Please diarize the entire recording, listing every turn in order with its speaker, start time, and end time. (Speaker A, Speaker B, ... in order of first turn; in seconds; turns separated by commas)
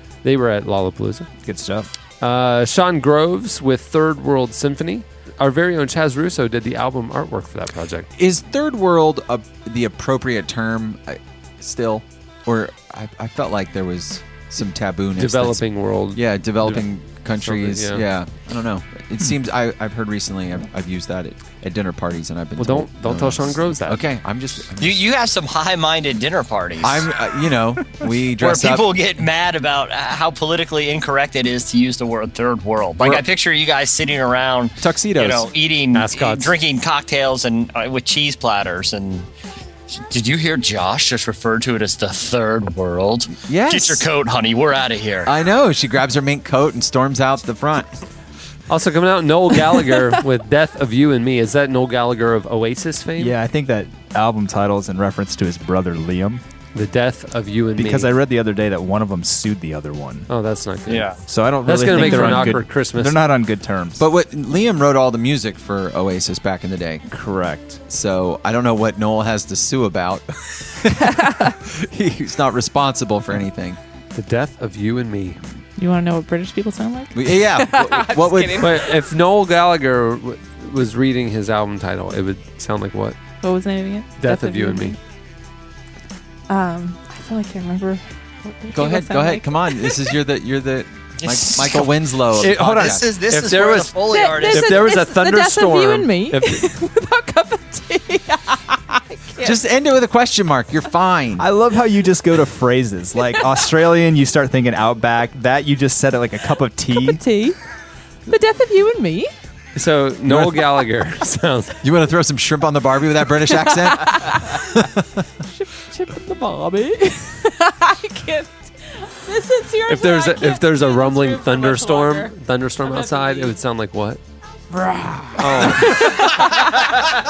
Speaker A: 0.2-1.3, Speaker B: 1.4-1.9, Speaker A: 2.2-8.1, Speaker C: 8.2-25.0, Speaker A: 15.2-18.0, Speaker A: 22.6-24.0, Speaker D: 24.8-27.1, Speaker C: 26.8-28.9, Speaker D: 28.4-39.3, Speaker C: 33.0-33.2, Speaker C: 34.8-35.5, Speaker A: 35.9-36.5, Speaker D: 39.9-45.3, Speaker C: 43.5-44.0, Speaker C: 45.2-47.9, Speaker A: 48.7-53.4, Speaker B: 53.2-56.4, Speaker A: 56.7-58.2, Speaker B: 57.8-60.3, Speaker A: 60.3-63.2, Speaker B: 61.2-64.0, Speaker E: 62.0-62.4, Speaker C: 64.0-67.0, Speaker B: 67.1-67.8, Speaker C: 67.9-73.8, Speaker E: 71.1-71.5, Speaker A: 74.1-75.4, Speaker E: 75.8-78.9, Speaker C: 77.1-78.8, Speaker A: 78.6-83.2, Speaker E: 83.4-85.0, Speaker A: 84.2-85.0, Speaker E: 86.5-90.1, Speaker C: 88.7-93.0, Speaker D: 91.2-94.9, Speaker A: 92.4-96.6, Speaker E: 94.1-99.6, Speaker C: 99.4-101.4, Speaker B: 101.4-107.2, Speaker E: 106.9-107.6, Speaker E: 108.3-109.3, Speaker A: 109.7-111.8, Speaker C: 110.2-110.8, Speaker C: 111.8-115.2, Speaker E: 113.5-114.7, Speaker E: 115.5-123.6, Speaker A: 119.9-124.2, Speaker E: 124.7-127.0, Speaker A: 125.4-126.2